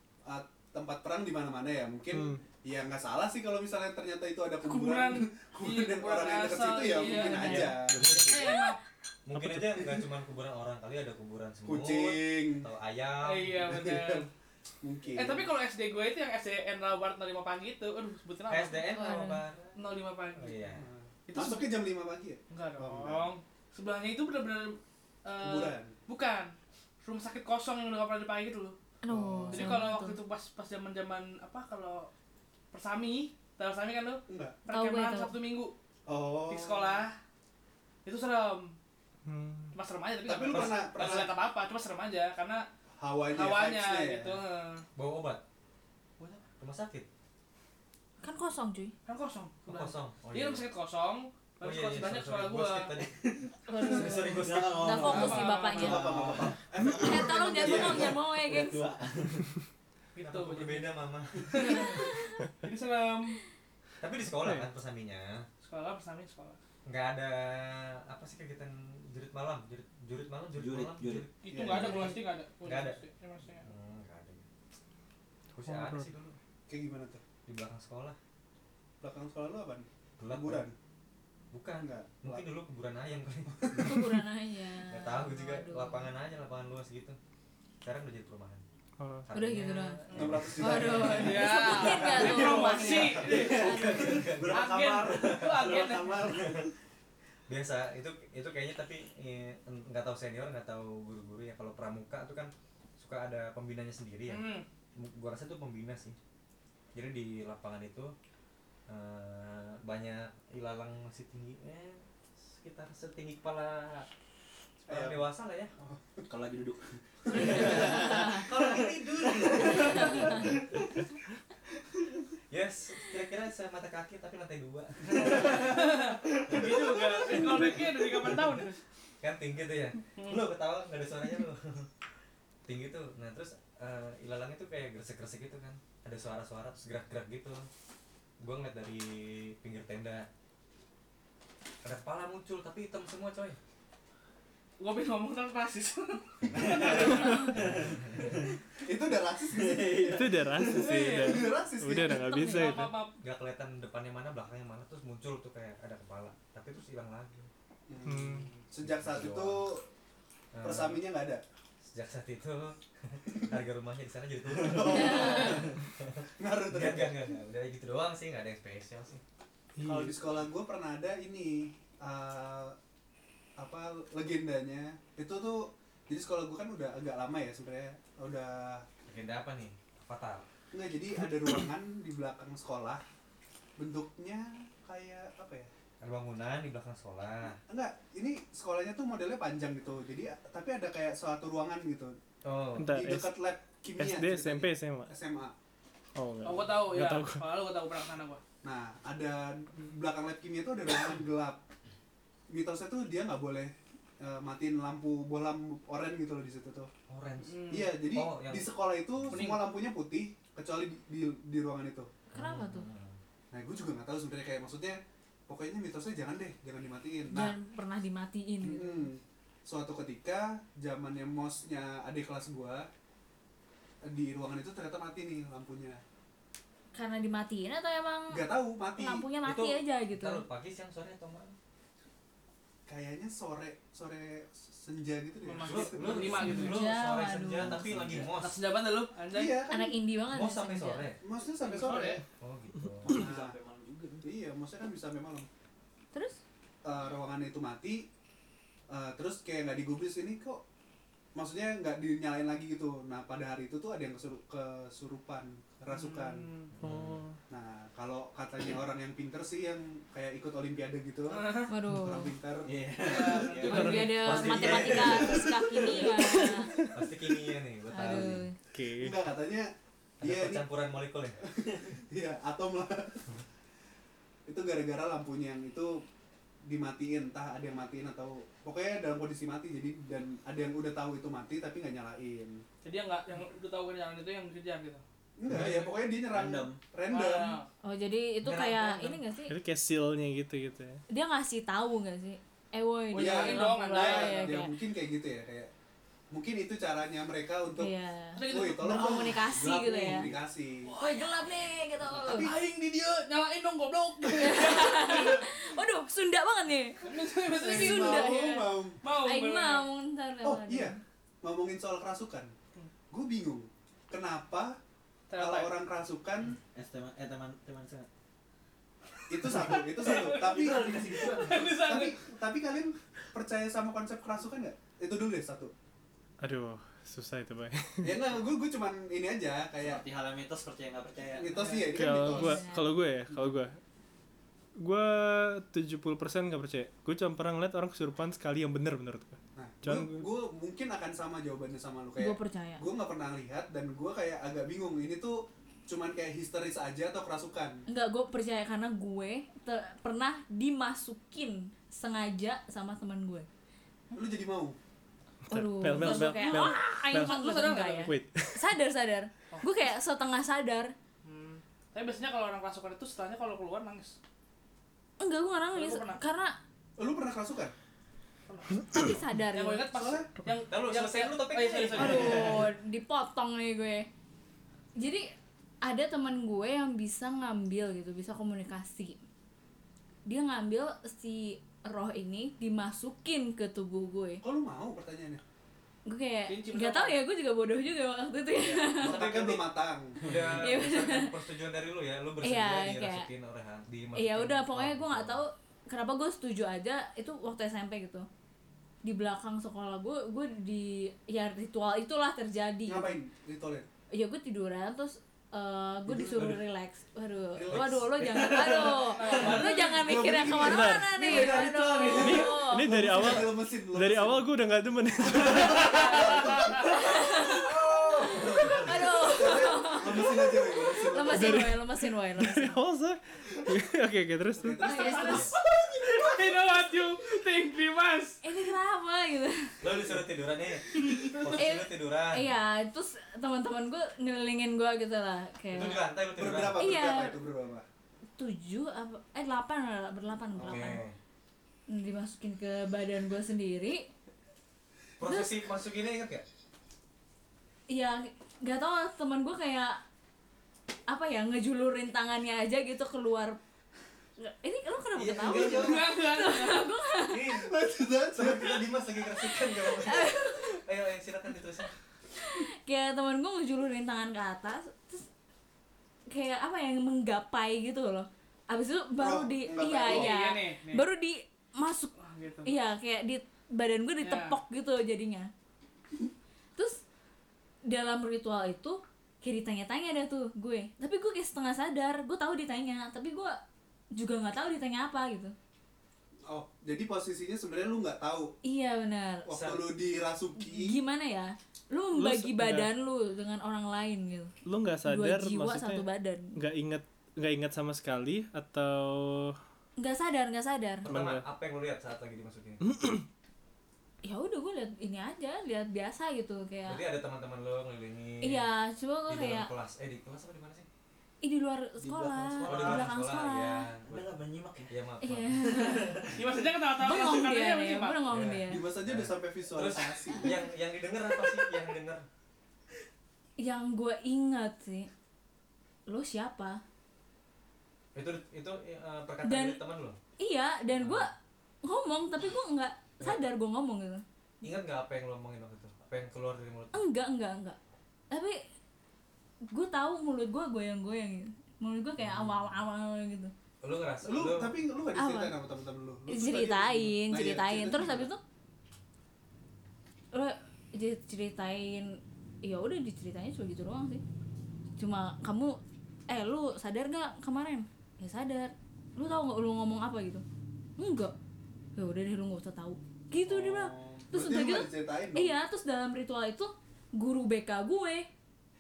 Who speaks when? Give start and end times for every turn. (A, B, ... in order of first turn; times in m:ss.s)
0:00.2-0:08.0 A
0:02.1-0:02.4 B
0:04.6-0:08.8 C
0:07.2-0:08.6 D
0:08.3-0:08.8 E
0:09.2-0:13.6 D
0:09.3-0:10.0 B
0:11.6-0:12.6 A
0:13.2-0:14.3 C
0:13.5-0:14.3 A
0:14.8-0:15.5 A
0:15.1-0:20.5 C
0:18.5-0:19.8 D
0:18.9-0:19.4 E
0:20.4-0:20.9 D
0:20.6-0:23.3 A
0:21.3-0:21.7 C
0:22.5-0:28.8 C
0:25.4-0:25.9 A
0:29.0-0:30.2 E
0:29.1-0:29.8 A
0:29.5-0:32.1 C
0:32.7-0:35.7 C
0:34.3-0:34.6 A
0:34.6-0:35.3 E
0:36.1-0:37.0 A
0:36.5-0:37.2 C
0:38.0-0:38.8 C
0:39.2-0:39.8 B
0:39.8-0:42.6 C
0:40.2-0:41.3 A
0:43.0-0:44.4 A
0:43.3-0:44.8 C
0:45.0-0:45.4 D
0:46.2-0:46.4 C
0:46.6-0:47.1 D
0:48.2-0:48.9 E
0:49.0-0:52.9 C
0:49.6-0:50.6 D
0:51.6-0:55.3 D
0:53.6-0:56.0 E
0:54.0-0:56.6 F
0:54.9-0:56.0 C
0:55.8-0:58.2 A
0:56.1-0:58.1 D
0:56.9-0:58.9 E
0:57.6-0:59.5 F
1:00.1-1:03.4 C
1:00.2-1:02.1 D
1:04.0-1:05.4 D
1:04.3-1:04.7 B
1:05.6-1:06.6 C
1:06.8-1:13.0 D
1:10.5-1:11.3 F
1:11.4-1:13.7 C
1:11.5-1:12.2 A
1:13.6-1:14.4 D
1:15.6-1:16.1 B
1:15.6-1:16.4 D
1:16.7-1:17.2 A
1:17.4-1:18.2 D
1:19.0-1:20.8 A
1:20.2-1:20.6 D
1:21.5-1:24.2 D
1:21.8-1:22.5 A
1:23.6-1:24.1 A
1:23.8-1:26.1 E
1:24.9-1:27.2 D
1:27.8-1:28.6 D
1:29.0-1:29.3 B
1:29.3-1:31.3 D
1:29.3-1:34.2 E
1:30.1-1:32.3 A
1:30.1-1:36.3 C
1:31.6-1:36.6 F
1:33.2-1:36.7 D
1:37.5-1:46.2 D
1:44.3-1:44.6 C
1:46.9-1:48.1 D
1:48.9-1:54.1 D
1:54.8-1:55.7 D
1:54.9-1:56.3 A
1:56.3-2:00.3 F
1:57.3-1:57.9 A
1:57.3-2:00.5 D
2:02.5-2:05.9 D
2:05.2-2:08.8 C
2:05.2-2:05.5 F
2:06.5-2:08.4 D
2:06.5-2:07.5 A
2:09.2-2:11.9 D
2:10.2-2:10.4 C
2:12.6-2:17.7 D
2:18.4-2:20.3 D
2:21.8-2:23.6 D
2:24.8-2:27.6 C
2:26.4-2:28.4 D
2:26.5-2:27.9 F
2:28.8-2:30.1 A
2:29.5-2:31.0 F
2:30.0-2:33.0 B
2:30.6-2:33.2 C
2:31.2-2:32.4 A
2:33.2-2:37.5 D
2:37.9-2:39.8 A
2:38.1-2:38.5 B
2:38.8-2:39.6 D
2:40.5-2:41.0 D
2:40.6-2:41.4 A
2:41.8-2:49.2 D
2:44.5-2:45.7 A
2:44.9-2:45.6 E
2:46.4-2:47.2 A
2:49.8-2:50.1 B
2:49.8-2:52.8 A
2:53.6-2:58.9 A
2:59.0-3:00.5 D
3:00.7-3:03.0 A
3:03.8-3:05.7 A
3:06.0-3:07.6 D
3:07.7-3:12.2 A
3:12.4-3:12.9 D
3:12.8-3:13.3 B
3:12.9-3:15.5 A
3:14.0-3:15.1 B
3:16.2-3:17.4 B
3:16.4-3:18.4 C
3:18.6-3:21.6 A
3:22.5-3:26.9 A
3:27.1-3:29.5 D
3:27.4-3:27.9 C
3:27.7-3:32.1 A
3:29.3-3:29.6 C
3:32.3-3:32.9 E
3:32.3-3:33.2 D
3:33.5-3:37.5 A
3:37.3-3:39.1 E
3:38.6-3:42.9 A
3:44.0-3:46.0 A
3:46.9-3:48.4 E
3:48.3-3:49.3 A
3:48.9-3:50.4 E
3:49.4-3:51.5 D
3:52.9-3:56.6 A
3:55.4-3:56.8 C
3:55.6-3:58.6 D
3:56.4-3:57.9 E
3:58.3-3:59.6 C
3:59.3-3:59.9 A
3:59.7-4:01.0 E
4:00.2-4:01.2 D
4:01.2-4:02.2 A
4:01.6-4:02.2 C
4:02.4-4:03.3 D
4:03.0-4:04.2 F
4:03.1-4:03.5 A
4:04.2-4:05.5 A
4:06.1-4:06.4 E
4:06.8-4:08.1 A
4:08.9-4:10.6 A
4:11.4-4:16.5 A
4:15.9-4:16.7 C
4:16.7-4:17.2 D
4:16.8-4:17.4 B
4:17.5-4:23.5 A
4:21.3-4:21.7 C
4:21.7-4:22.3 E
4:22.6-4:26.5 F
4:23.0-4:24.1 C
4:23.4-4:25.4 D
4:23.6-4:26.8 E
4:23.6-4:24.1 B
4:24.4-4:26.4 A
4:26.9-4:28.4 D
4:27.9-4:28.6 E
4:28.0-4:28.3 A
4:28.7-4:29.2 B
4:29.0-4:30.7 A
4:30.2-4:31.4 D
4:31.6-4:33.2 A
4:34.5-4:36.0 A
4:36.6-4:42.6 A
4:42.8-4:45.0 C
4:45.4-4:47.6 A
4:45.7-4:46.8 F
4:47.1-4:47.7 C
4:47.8-4:49.5 E
4:48.4-4:49.2 D
4:49.5-4:51.0 B
4:51.1-4:54.7 E
4:53.1-4:54.6 C
4:53.1-4:55.7 A
4:56.3-5:00.9 A
4:57.8-5:00.3 E
4:58.4-4:59.2 C
4:59.1-5:00.4 F
5:00.8-5:02.5 E
5:02.1-5:02.7 A
5:02.3-5:05.5 C
5:04.4-5:07.1 E
5:07.0-5:08.3 C
5:07.5-5:09.0 A
5:07.6-5:11.0 E
5:09.0-5:09.8 C
5:10.4-5:12.5 A
5:13.1-5:14.8 A
5:15.3-5:15.7 C
5:15.4-5:16.6 A
5:16.7-5:18.1 F
5:19.3-5:25.7 A
5:19.4-5:22.2 C
5:19.7-5:21.7 F
5:26.4-5:28.2 B
5:28.0-5:30.0 A
5:29.8-5:31.7 F
5:31.3-5:32.6 A
5:31.9-5:33.8 B
5:32.0-5:33.0 E
5:34.8-5:40.3 B
5:39.6-5:47.8 A
5:42.2-5:42.8 E
5:47.9-5:53.5 E
5:54.1-5:54.8 A
5:55.5-5:57.4 B
5:55.5-6:00.9 E
5:56.0-5:58.1 C
5:58.0-5:58.6 B
5:59.5-5:59.8 C
6:01.2-6:04.2 C
6:05.2-6:06.6 E
6:05.7-6:06.2 C
6:07.0-6:07.7 A
6:08.5-6:08.8 C
6:08.9-6:09.9 E
6:09.5-6:12.6 C
6:09.9-6:10.3 A
6:10.7-6:12.5 D
6:11.9-6:14.1 E
6:15.0-6:15.3 E
6:15.8-6:19.2 E
6:20.2-6:24.4 E
6:24.4-6:25.4 A
6:26.0-6:29.2 E
6:26.5-6:27.2 C
6:28.6-6:30.5 A
6:28.9-6:29.7 D
6:30.2-6:35.4 D
6:30.6-6:31.3 E
6:32.4-6:33.3 E
6:34.2-6:38.3 E
6:39.0-6:43.2 E
6:42.9-6:43.9 A
6:44.1-6:52.9 E
6:46.1-6:46.5 A
6:47.5-6:48.0 A
6:47.7-6:48.4 D
6:48.2-6:49.6 F
6:49.1-6:50.0 C
6:49.3-6:54.5 A
6:50.6-6:51.2 B
6:51.1-6:52.5 F
6:52.2-6:56.2 B
6:55.2-7:01.6 A
6:55.6-7:02.8 E
6:55.9-6:56.4 C
6:58.1-6:58.8 D
7:01.3-7:04.9 B
7:04.5-7:06.7 A
7:04.8-7:05.5 E
7:04.8-7:08.4 C
7:05.2-7:05.5 D
7:08.4-7:09.8 E
7:09.8-7:12.5 D
7:11.5-7:16.0 E
7:15.7-7:17.0 D
7:16.4-7:17.9 A
7:16.8-7:17.4 E
7:18.4-7:21.0 E
7:20.5-7:21.0 A
7:20.6-7:21.2 D
7:21.9-7:24.1 E
7:25.2-7:26.4 D
7:27.9-7:30.0 E
7:31.1-7:33.6 E
7:34.4-7:37.6 E
7:35.1-7:36.0 D
7:35.5-7:36.9 C
7:35.5-7:35.8 A
7:37.3-7:39.0 A
7:38.4-7:41.9 D
7:39.4-7:40.8 E
7:42.4-7:45.2 E
7:46.3-7:52.1 E
7:49.2-7:50.3 A
7:49.9-7:51.0 C
7:52.2-7:52.7 C
7:52.6-7:55.5 E
7:54.2-7:54.6 C
7:56.8-7:57.0 E
7:57.9-8:03.6 E
8:04.1-8:05.5 E
8:06.5-8:08.5 A
8:08.6-8:09.5 E
8:09.5-8:11.0 A
8:09.5-8:09.8 D
8:10.6-8:14.5 E
8:12.1-8:12.9 B
8:14.7-8:19.6 B
8:15.0-8:16.6 E
8:20.0-8:21.1 E
8:21.0-8:23.0 D
8:21.0-8:21.4 B
8:22.8-8:23.2 B
8:24.2-8:27.0 E
8:26.8-8:28.7 D
8:28.4-8:29.7 E
8:29.3-8:30.9 D
8:31.4-8:33.8 E
8:32.0-8:33.1 F
8:32.6-8:36.0 D
8:34.0-8:34.9 F
8:35.2-8:36.3 E
8:35.8-8:36.3 F
8:36.3-8:38.2 C
8:37.0-8:38.8 E
8:38.3-8:42.2 D
8:38.6-8:40.5 A
8:43.6-8:45.1 E
8:46.1-8:46.8 E
8:48.1-8:50.2 D
8:49.4-8:49.8 E
8:50.4-8:51.3 E
8:51.0-8:51.3 D
8:51.8-8:54.2 E
8:54.6-8:57.0 D
8:56.9-8:57.8 E
8:58.3-8:58.6 E
8:59.7-9:03.5 E
9:02.2-9:02.5 D
9:03.8-9:04.7 D
9:04.2-9:08.3 A
9:05.1-9:05.5 E
9:06.3-9:08.4 E
9:10.3-9:14.2 E
9:15.0-9:20.4 E
9:21.0-9:21.3 E
9:22.0-9:28.3 E
9:23.4-9:25.5 A